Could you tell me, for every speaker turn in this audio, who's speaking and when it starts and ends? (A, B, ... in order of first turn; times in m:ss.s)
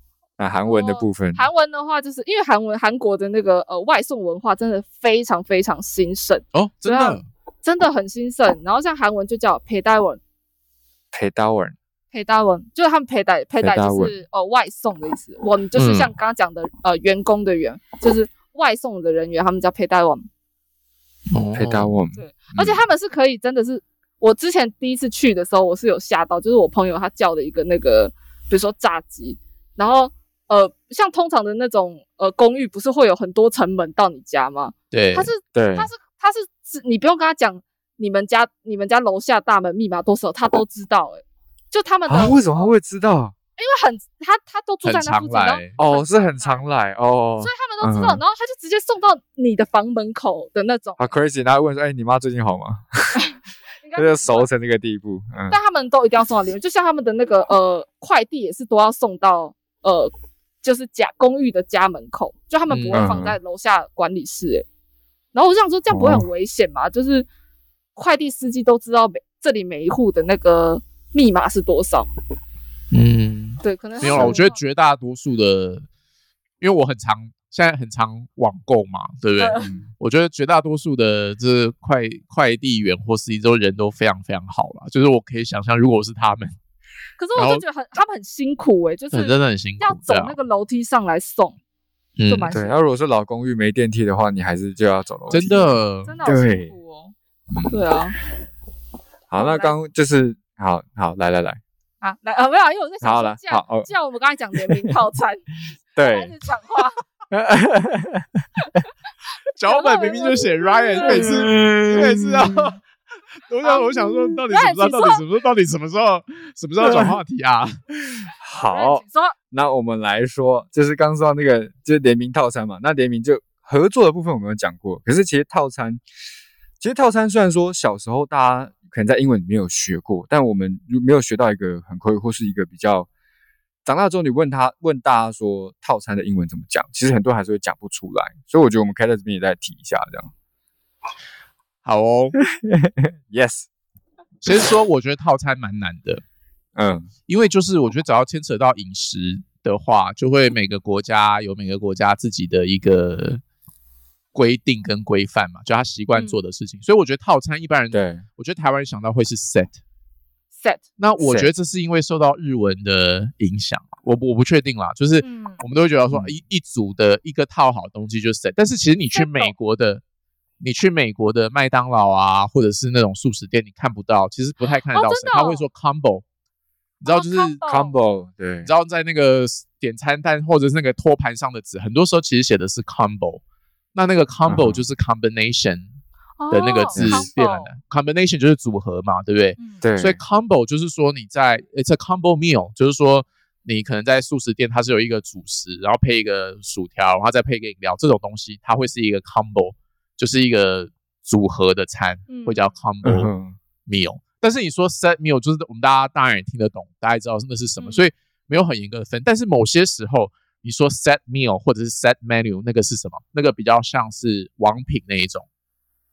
0:00.4-0:01.4 A
0:00.6-0:10.2 B
0:06.5-0:07.3 C
0:11.1-0:11.8 A
0:12.1-0:20.2 B
0:13.6-0:14.1 A
0:15.8-0:16.1 C
0:21.3-0:21.9 C
0:21.5-0:22.8 A
0:22.1-0:42.7 B
0:34.9-0:35.3 C
0:35.5-0:35.9 A
0:42.1-0:43.3 A
0:43.6-0:46.6 B
0:44.8-0:45.8 C
0:45.8-0:48.2 A
0:47.4-0:51.1 B
0:51.0-0:53.2 A
0:53.2-0:54.5 B
0:54.0-0:55.6 A
0:55.5-1:04.6 B
1:02.7-1:03.1 C
1:02.9-1:03.4 A
1:05.3-1:07.3 B
1:05.9-1:06.2 A
1:08.0-1:12.1 B
1:12.9-1:15.9 C
1:13.6-1:14.6 B
1:14.0-1:14.4 A
1:16.6-1:26.6 C
1:19.4-1:19.7 B
1:19.6-1:19.8 A
1:27.2-1:31.6 B
1:27.4-1:27.6 C
1:29.1-1:30.4 C
1:32.2-1:32.5 C
1:32.3-1:32.8 B
1:32.5-1:35.6 A
1:35.3-1:37.1 B
1:35.3-1:36.1 C
1:36.2-1:36.7 A
1:37.7-1:38.2 B
1:39.3-1:41.6 A
1:39.4-1:39.7 B
1:42.0-1:45.4 B
1:43.0-1:43.9 A
1:44.5-1:44.9 A
1:46.0-1:46.3 A
1:46.0-1:47.0 B
1:47.3-1:48.5 A
1:49.5-1:52.8 C
1:49.7-1:51.5 B
1:51.0-1:52.7 A
1:53.5-1:57.8 C
1:53.6-1:55.2 B
1:56.8-1:57.2 A
1:58.4-2:06.0 A
1:58.5-1:59.4 B
2:06.8-2:13.1 A
2:13.8-2:20.3 A
2:21.8-2:22.4 C
2:22.4-2:23.7 A
2:24.4-2:26.2 C
2:26.8-2:27.1 A
2:27.3-2:33.4 C
2:34.3-2:39.8 C
2:36.1-2:36.4 B
2:37.9-2:38.2 A
2:41.0-2:50.0 C
2:41.2-2:41.5 A
2:45.2-2:45.6 B
2:49.1-2:49.5 B
2:50.6-2:56.2 C
2:54.9-2:55.6 B
2:57.0-2:57.6 C
2:57.0-2:58.0 B
2:57.6-2:58.7 A
2:58.6-3:03.4 C
3:04.0-3:06.0 C
3:04.5-3:04.8 A
3:06.4-3:07.7 B
3:06.5-3:23.3 C
3:07.0-3:07.3 A
3:09.6-3:09.8 B
3:09.8-3:10.2 A
3:22.3-3:22.7 B
3:23.0-3:23.6 A
3:23.8-3:35.5 C
3:27.8-3:28.1 B